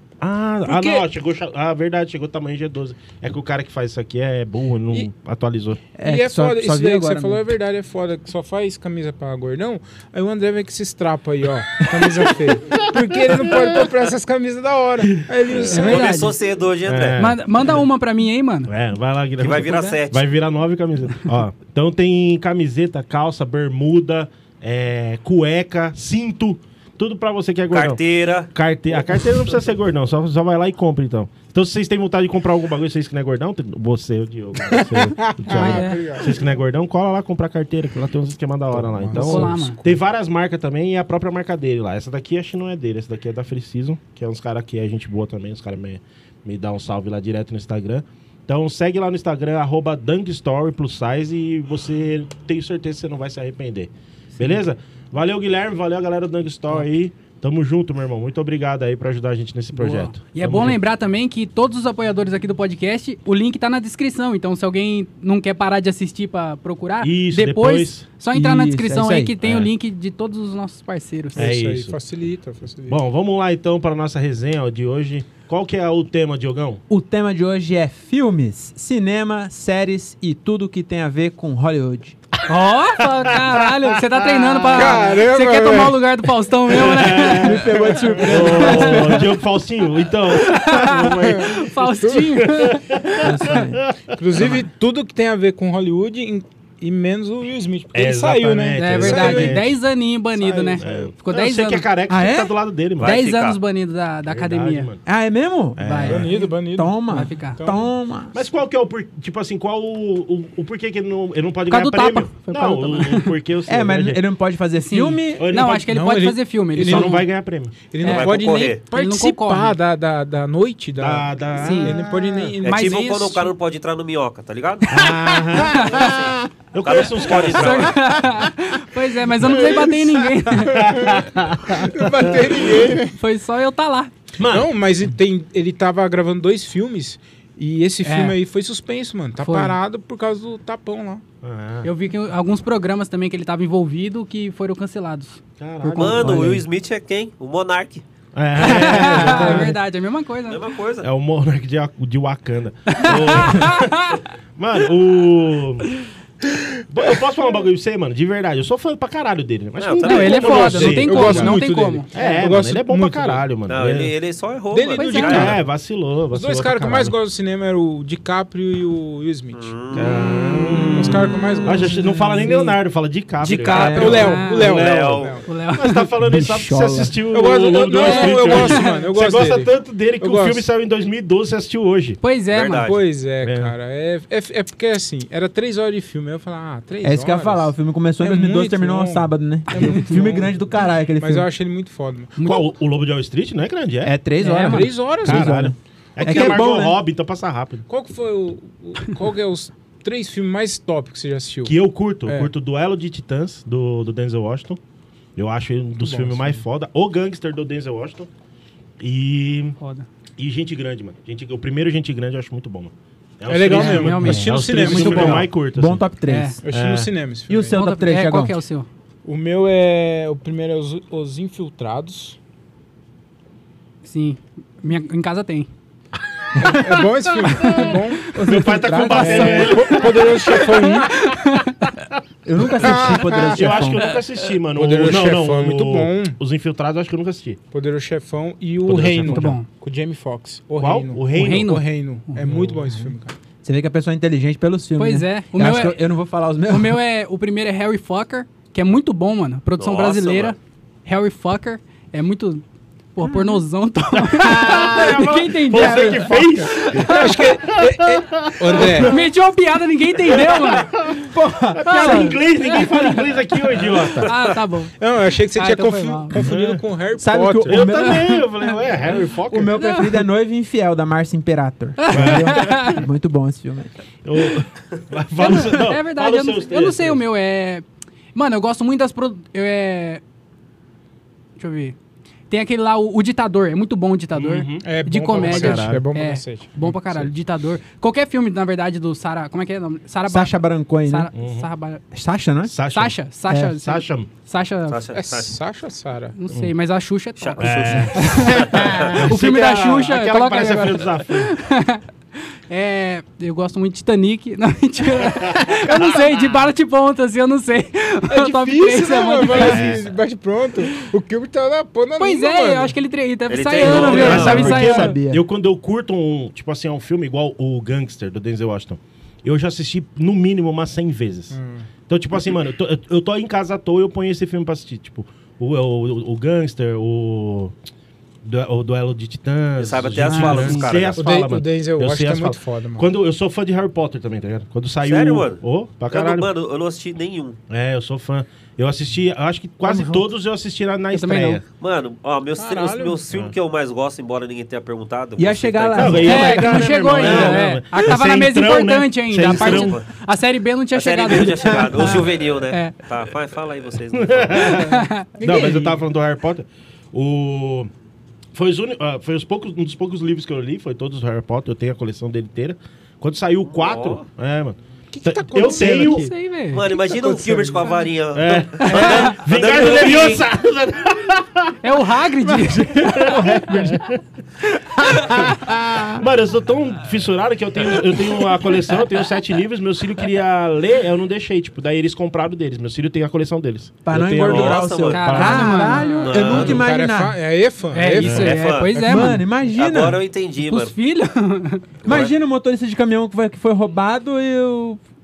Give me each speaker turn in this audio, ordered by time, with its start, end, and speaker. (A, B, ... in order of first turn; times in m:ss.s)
0:00.2-0:05.8 A
0:00.7-0:01.0 B
0:06.0-0:07.5 C
0:06.0-0:16.2 D
0:13.3-0:13.9 A
0:15.4-0:15.7 A
0:15.6-0:16.3 B
0:15.7-0:17.2 E
0:16.9-0:17.8 A
0:17.2-0:18.7 B
0:18.7-1:00.8 A
0:19.4-0:20.3 E
0:27.7-0:28.5 E
0:29.1-0:29.4 E
0:34.7-0:36.4 D
0:35.5-0:36.1 B
0:38.7-0:40.0 D
0:39.1-0:39.8 B
0:59.8-1:11.5 B
1:07.0-1:08.0 A
1:08.3-1:09.4 C
1:09.4-1:09.7 A
1:11.4-1:13.0 D
1:11.4-1:12.0 A
1:12.9-1:16.8 A
1:16.9-1:22.2 C
1:22.5-1:29.0 B
1:24.6-1:26.0 D
1:26.7-1:34.5 A
1:27.4-1:29.4 C
1:27.9-1:28.7 D
1:30.4-1:33.0 B
1:31.0-1:32.4 D
1:33.2-1:33.8 C
1:34.1-1:39.7 D
1:37.9-1:39.8 A
1:38.8-1:41.9 B
1:40.4-1:41.0 D
1:40.8-1:43.2 A
1:42.1-1:42.5 C
1:43.0-1:44.9 B
1:43.0-1:43.6 E
1:44.3-1:45.0 A
1:45.0-1:46.1 C
1:45.8-1:46.3 A
1:45.8-1:46.5 B
1:46.0-1:47.9 D
1:46.7-1:48.4 C
1:47.1-1:47.6 B
1:48.3-1:54.2 A
1:51.7-1:53.3 B
1:53.7-1:55.5 C
1:54.8-1:57.2 B
1:55.4-1:56.0 A
1:55.9-1:57.2 D
1:56.8-1:57.8 A
1:57.9-2:03.5 D
1:58.0-1:58.8 E
1:58.0-1:59.8 B
2:01.0-2:02.0 A
2:01.6-2:02.1 B
2:02.6-2:05.1 E
2:04.9-2:05.9 A
2:05.5-2:06.4 B
2:05.6-2:08.2 E
2:06.7-2:08.0 A
2:07.4-2:11.1 B
2:09.4-2:10.1 D
2:10.5-2:12.9 A
2:10.8-2:13.2 D
2:12.7-2:14.1 B
2:14.4-2:14.7 A
2:14.5-2:21.2 D
2:18.0-2:18.4 B
2:19.4-2:19.8 B
2:21.4-2:21.9 A
2:21.8-2:26.4 B
2:25.6-2:26.3 A
2:25.9-2:28.0 E
2:26.2-2:26.6 C
2:28.3-2:29.8 A
2:28.6-2:30.6 B
2:29.0-2:29.7 D
2:29.3-2:29.7 C
2:30.5-2:31.1 E
2:31.0-2:35.9 A
2:32.9-2:34.2 B
2:36.9-2:44.1 A
2:39.8-2:40.9 E
2:40.0-2:42.1 B
2:40.6-2:43.4 D
2:43.7-2:45.6 E
2:44.7-2:45.6 D
2:44.9-2:45.5 B
2:45.2-2:47.2 A
2:46.3-2:49.7 D
2:49.5-2:50.4 E
2:49.9-3:02.2 A
2:50.7-2:52.6 D
2:51.0-2:52.8 B
2:53.4-2:54.8 B
2:53.6-2:53.9 E
2:53.7-2:54.3 C
2:53.8-2:55.5 D
2:54.6-2:55.4 E
2:55.4-2:56.1 B
2:56.2-2:57.2 C
2:57.3-3:00.7 D
2:57.9-2:59.1 B
3:02.2-3:02.9 B
3:02.5-3:03.0 E
3:02.8-3:12.5 D
3:03.4-3:03.7 A
3:07.0-3:11.5 C
3:09.7-3:10.0 B
3:12.4-3:12.7 B
3:12.4-3:14.2 A
3:14.0-3:17.0 C
3:14.4-3:15.6 D
3:14.7-3:17.9 A
3:16.2-3:16.7 D
3:17.9-3:22.5 D
3:21.6-3:24.8 A
3:25.4-3:28.3 A
3:26.0-3:26.6 D
3:29.0-3:29.8 A
3:29.8-3:30.1 B
3:30.4-3:36.0 A
3:33.5-3:35.5 D
3:33.7-3:35.3 B
3:34.3-3:36.6 C
3:36.2-3:36.6 B
3:36.6-3:37.8 D
3:36.7-3:37.1 A
3:37.5-3:38.6 C
3:37.7-3:38.9 B
3:39.2-3:42.4 D
3:44.0-3:45.7 B
3:46.6-3:47.0 C
3:46.6-3:48.3 D
3:47.4-3:48.3 B
3:48.3-3:49.9 C
3:48.3-3:50.6 A
3:49.2-3:51.2 D
3:50.6-3:51.9 B
3:52.4-3:54.0 C
3:52.8-3:53.8 D
3:53.0-3:57.6 A
3:54.7-3:56.4 D
3:57.7-4:03.4 D
3:58.8-3:59.6 A
3:59.3-3:59.7 B
4:00.8-4:01.8 A
4:01.4-4:01.9 B
4:02.4-4:02.9 A
4:03.6-4:07.0 C
4:05.0-4:06.0 B
4:06.7-4:17.5 B
4:09.8-4:10.6 E
4:13.3-4:13.5 C
4:14.1-4:19.1 A
4:14.6-4:16.7 C
4:17.0-4:19.3 D
4:18.8-4:20.9 B
4:18.9-4:19.1 C
4:20.2-4:24.4 A
4:21.2-4:22.4 C
4:21.9-4:26.4 B
4:24.2-4:24.6 E
4:25.0-4:27.9 D
4:26.4-4:26.8 A
4:27.2-4:28.4 C
4:27.7-4:29.8 A
4:29.5-4:33.9 C
4:29.8-4:30.2 B
4:32.0-4:33.0 B
4:32.1-4:32.9 A
4:34.2-4:37.2 A
4:35.4-4:40.2 B
4:41.6-4:42.0 B
4:42.5-4:52.0 B
4:44.3-4:46.0 A
4:44.8-4:47.3 D
4:50.3-4:51.3 C
4:51.3-4:51.7 A
4:52.1-4:52.8 C
4:52.7-4:53.2 A
4:52.8-4:55.1 B
4:53.5-4:53.8 C
4:53.8-4:54.3 A
4:54.9-4:55.6 E
4:55.1-4:56.4 D
4:56.4-5:02.0 B
4:57.4-4:59.0 E
4:57.6-5:01.6 A
5:02.7-5:10.0 B
5:05.8-5:06.2 C
5:08.3-5:13.0 D
5:09.5-5:10.1 A
5:12.2-5:15.2 B
5:13.5-5:14.7 E
5:13.8-5:27.7 A
5:13.8-5:15.4 C
5:21.5-5:21.9 D
5:28.4-5:36.5 A
5:29.8-5:31.2 E
5:30.3-5:33.1 D
5:35.0-5:37.6 E
5:37.7-5:41.6 A
5:39.9-5:40.2 C
5:41.1-5:41.6 B
5:41.8-5:46.4 E
5:42.6-5:43.2 D
5:45.4-5:47.6 C
5:46.0-5:50.0 A
5:46.2-5:53.0 B
5:49.4-5:50.1 E
5:51.0-5:54.9 E
5:51.8-5:52.2 C
5:54.2-5:57.9 A
5:54.8-5:55.8 B
5:55.5-5:56.0 C
5:58.6-6:06.3 A
6:03.7-6:04.2 E
6:05.1-6:06.4 D
6:05.6-6:06.9 B
6:06.7-6:10.4 E
6:06.9-6:08.1 D
6:08.3-6:11.8 A
6:08.9-6:09.4 B
6:11.8-6:13.6 B
6:12.5-6:14.0 C
6:12.7-6:14.2 A
6:14.7-6:16.2 C
6:15.1-6:26.0 A
6:24.0-6:27.4 C
6:24.4-6:26.9 E
6:25.1-6:26.5 B
6:25.8-6:29.4 D
6:27.9-6:29.4 B
6:28.2-6:28.5 A
6:28.2-6:29.0 E
6:29.0-6:30.2 C
6:29.6-6:31.0 E
6:30.6-6:31.9 B
6:32.0-6:32.3 E
6:32.0-6:35.0 C